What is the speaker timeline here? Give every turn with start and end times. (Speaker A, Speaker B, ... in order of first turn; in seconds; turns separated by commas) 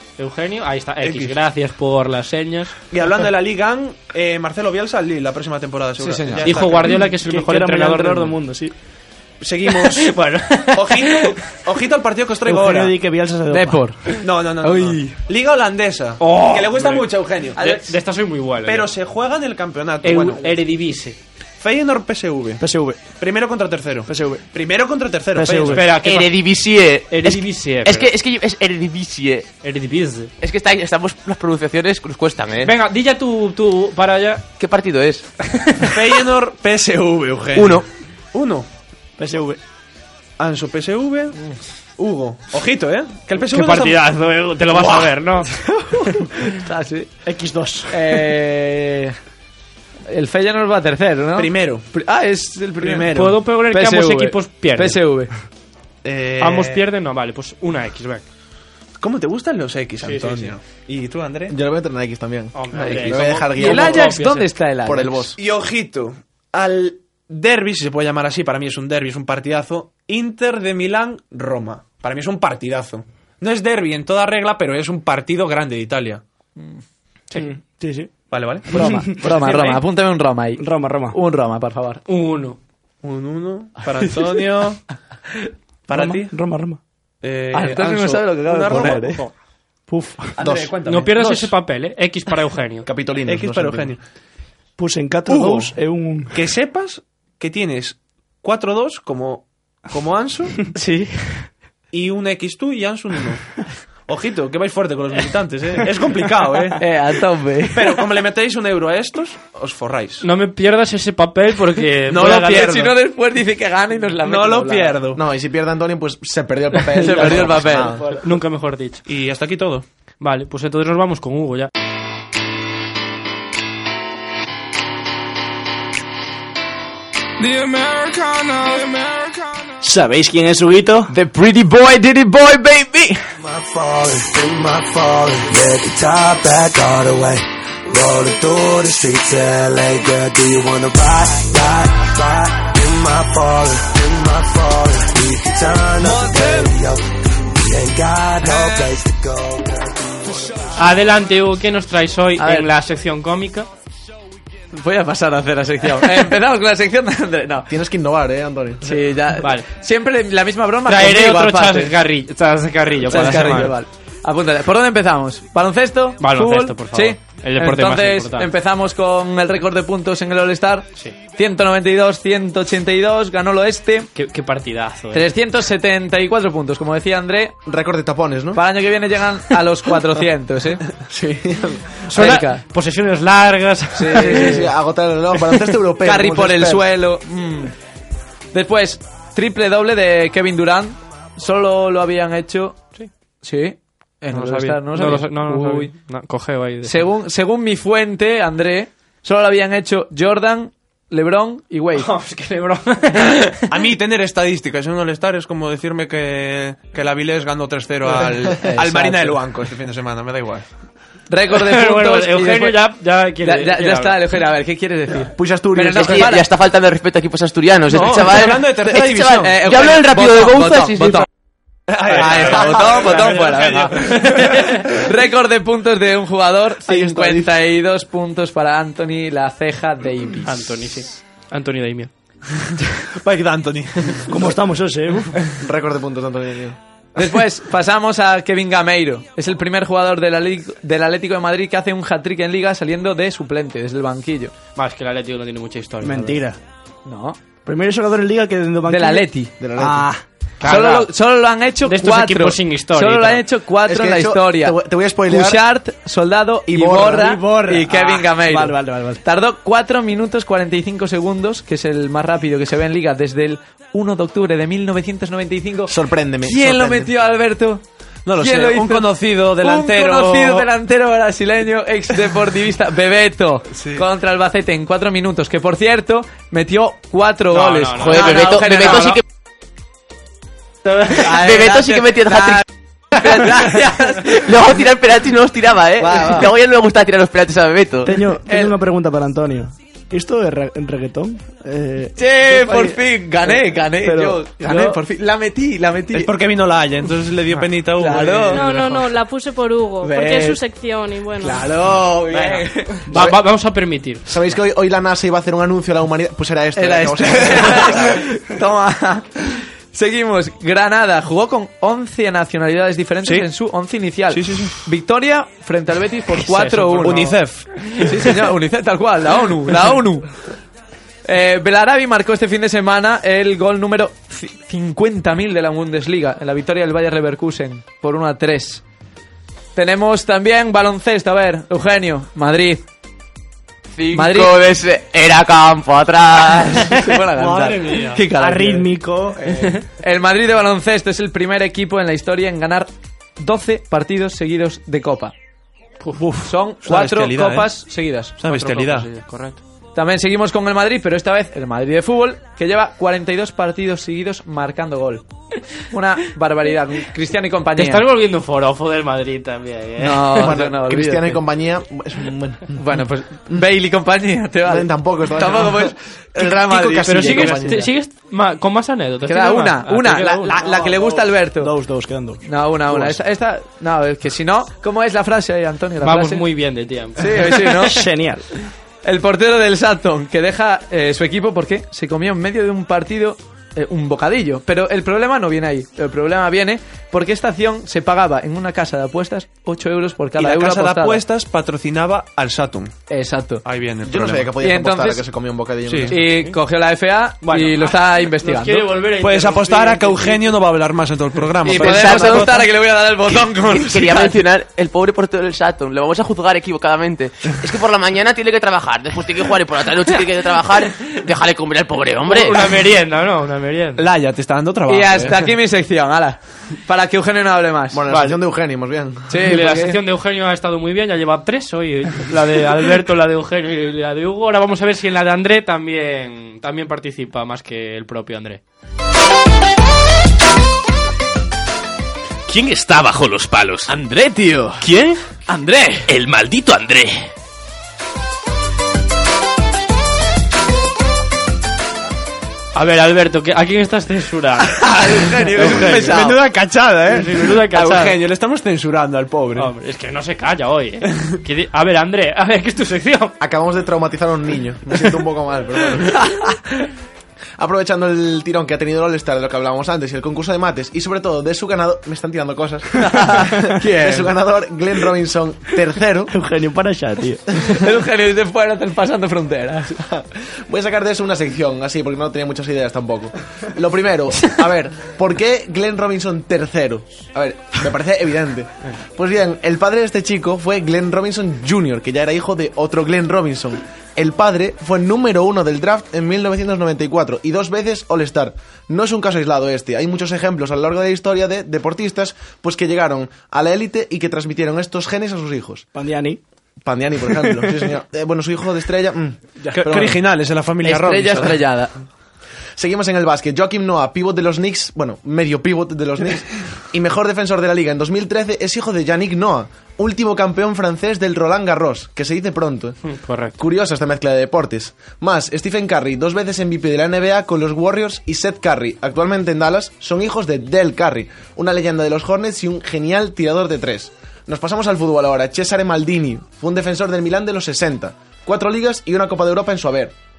Speaker A: 0.2-2.8, Speaker B: 1.0-1.4, Speaker B: 2.9-7.1, Speaker C: 6.0-6.5, Speaker A: 6.3-8.4, Speaker D: 7.1-8.7, Speaker B: 9.4-12.9, Speaker A: 9.7-11.5, Speaker D: 12.4-13.9, Speaker C: 13.5-15.2, Speaker B: 14.2-17.8, Speaker A: 16.2-18.9, Speaker C: 17.6-17.9, Speaker B: 18.6-20.6, Speaker A: 20.0-21.2, Speaker B: 21.6-22.6, Speaker D: 22.6-23.1, Speaker B: 23.2-25.9, Speaker D: 24.1-24.4, Speaker D: 25.3-25.8, Speaker A: 25.7-26.4, Speaker E: 26.0-29.5, Speaker A: 27.1-28.1, Speaker A: 29.6-30.3, Speaker E: 30.4-32.7, Speaker A: 32.6-34.5, Speaker E: 34.6-35.2, Speaker A: 35.6-35.9, Speaker B: 35.8-38.7, Speaker E: 37.5-37.8, Speaker D: 39.2-39.6, Speaker B: 40.4-41.4, Speaker B: 42.0-44.0, Speaker A: 43.4-45.5, Speaker B: 44.7-45.1, Speaker C: 46.0-47.1, Speaker D: 47.2-48.3, Speaker C: 47.9-49.1, Speaker C: 50.1-55.3, Speaker B: 51.3-51.9, Speaker B: 52.8-53.4, Speaker A: 53.1-55.0, Speaker B: 56.0-56.8, Speaker A: 56.4-58.2, Speaker B: 59.0-61.5, Speaker A: 60.0-60.5, Speaker F: 61.5-64.2, Speaker A: 62.5-64.5, Speaker C: 62.8-65.3, Speaker F: 64.8-65.3, Speaker B: 65.3-76.2, Speaker D: 77.4-78.1, Speaker B: 78.3-79.8, Speaker C: 78.7-82.0, Speaker D: 78.7-79.2, Speaker D: 80.6-81.2, Speaker A: 82.1-82.6, Speaker B: 83.0-84.8, Speaker C: 83.9-84.4, Speaker B: 85.9-86.3, Speaker D: 85.9-86.8, Speaker B: 87.2-89.2, Speaker C: 87.5-89.3, Speaker D: 89.9-90.5, Speaker B: 90.4-91.5, Speaker F: 90.4-90.7, Speaker A: 90.8-92.9, Speaker F: 92.8-93.9, Speaker B: 93.2-94.0, Speaker D: 94.8-96.3, Speaker B: 95.3-95.7, Speaker B: 96.3-100.7, Speaker C: 100.7-101.5, Speaker B: 101.9-106.9, Speaker C: 106.8-108.1, Speaker B: 107.7-110.3, Speaker A: 110.2-112.8, Speaker B: 112.1-112.9, Speaker C: 112.1-115.1, Speaker B: 114.2-115.2, Speaker F: 115.1-118.0, Speaker C: 116.8-118.0, Speaker D: 117.9-118.2, Speaker A: 118.1-119.0, Speaker B: 119.1-119.8, Speaker A: 120.2-121.7, Speaker G: 127.4-129.8, Speaker D: 129.8-131.1, Speaker C: 131.1-133.2, Speaker G: 133.4-150.8, Speaker C: 146.0-146.7, Speaker A: 150.7-153.7, Speaker C: 152.4-152.7, Speaker C: 154.7-157.7, Speaker F: 157.7-158.9, Speaker C: 158.8-161.9, Speaker A: 159.4-159.7, Speaker A: 160.8-163.8, Speaker C: 163.0-174.1, Speaker A: 166.2-168.5, Speaker A: 174.1-175.3, Speaker C: 175.1-177.6, Speaker F: 177.7-178.6, Speaker C: 178.5-180.8, Speaker F: 181.0-182.1, Speaker A: 182.1-184.7, Speaker C: 182.1-182.6, Speaker C: 183.9-184.7, Speaker F: 184.1-186.9, Speaker C: 186.0-187.7, Speaker C: 188.5-195.9, Speaker A: 194.3-197.1, Speaker C: 196.8-202.1, Speaker A: 201.9-203.7, Speaker B: 203.7-210.6, Speaker C: 208.1-209.4, Speaker C: 211.3-216.5, Speaker A: 211.5-214.2, Speaker F: 215.3-216.3, Speaker E: 215.9-221.3, Speaker B: 217.9-219.6, Speaker C: 219.4-221.3, Speaker B: 221.9-224.4, Speaker C: 222.0-230.8, Speaker A: 223.1-224.8, Speaker F: 226.9-227.4, Speaker A: 230.4-232.1, Speaker B: 233.1-234.3, Speaker D: 234.3-235.3, Speaker F: 235.6-236.8, Speaker C: 237.1-244.5, Speaker A: 244.8-246.4, Speaker D: 246.0-246.6, Speaker C: 247.0-247.4, Speaker D: 247.7-250.2, Speaker C: 248.9-249.5, Speaker F: 249.6-250.1, Speaker A: 250.6-251.1, Speaker C: 250.6-267.8, Speaker A: 251.8-253.4, Speaker F: 253.8-255.6, Speaker F: 256.7-257.3, Speaker D: 257.1-259.2, Speaker F: 265.9-267.1, Speaker B: 268.2-270.7, Speaker C: 268.4-279.2, Speaker B: 273.7-274.1, Speaker A: 277.5-279.2, Speaker E: 278.0-279.2, Speaker C: 280.9-284.3, Speaker E: 281.1-282.6, Speaker E: 283.1-288.2, Speaker C: 286.0-286.5, Speaker D: 288.0-294.9, Speaker C: 288.4-288.7, Speaker C: 292.2-296.3, Speaker B: 296.1-299.1, Speaker C: 297.9-298.7, Speaker H: 298.5-301.8, Speaker C: 300.0-300.6, Speaker C: 301.4-303.2, Speaker A: 303.1-304.2, Speaker F: 304.2-308.2, Speaker C: 306.7-320.4, Speaker B: 313.2-313.5, Speaker B: 314.3-314.8, Speaker A: 316.3-318.3, Speaker B: 317.0-318.1, Speaker C: 321.2-328.8, Speaker C: 329.7-332.8, Speaker E: 334.0-336.9, Speaker C: 334.0-335.0, Speaker C: 336.2-338.9, Speaker B: 337.4-338.1, Speaker D: 338.3-339.8, Speaker C: 340.0-345.3, Speaker A: 346.0-346.3, Speaker C: 346.4-349.0, Speaker B: 346.8-347.9, Speaker B: 348.4-349.1, Speaker A: 348.5-349.6, Speaker C: 349.9-355.2, Speaker C: 355.8-358.0, Speaker A: 357.8-360.6, Speaker C: 360.0-361.4, Speaker F: 360.3-362.8, Speaker C: 362.7-367.9, Speaker F: 364.6-367.9, Speaker A: 367.1-370.5, Speaker C: 369.2-371.7, Speaker D: 370.5-373.1, Speaker C: 372.4-376.5, Speaker A: 376.0-378.0, Speaker C: 377.2-378.0, Speaker D: 377.9-378.5, Speaker C: 379.0-391.2, Speaker B: 390.4-392.9, Speaker C: 393.1-393.6, Speaker B: 393.6-394.5, Speaker F: 394.0-396.2, Speaker C: 394.6-395.2, Speaker B: 395.9-396.1, Speaker C: 396.1-399.0, Speaker A: 396.2-396.6, Speaker A: 397.4-400.6, Speaker B: 399.1-402.5, Speaker C: 401.6-404.4, Speaker E: 401.7-402.6, Speaker E: 403.7-412.6, Speaker A: 412.2-414.0, Speaker B: 414.0-415.5, Speaker C: 414.9-418.3, Speaker F: 417.9-419.4, Speaker C: 419.3-420.0, Speaker A: 419.4-428.6, Speaker I: 432.5-434.0, Speaker C: 433.9-434.9, Speaker C: 435.5-436.1, Speaker I: 436.1-437.2, Speaker A: 442.7-446.2, Speaker C: 444.8-446.4, Speaker B: 445.3-449.7, Speaker A: 447.1-448.2, Speaker A: 449.5-453.4, Speaker F: 453.4-456.2, Speaker F: 457.6-466.3, Speaker C: 463.0-464.3, Speaker D: 466.3-467.7, Speaker C: 467.6-470.0, Speaker F: 470.0-495.9, Speaker D: 495.9-496.4, Speaker F: 496.8-500.2, Speaker B: 499.7-501.7, Speaker C: 500.8-501.9, Speaker F: 502.8-513.0, Speaker A: 513.1-513.6, Speaker F: 513.6-530.1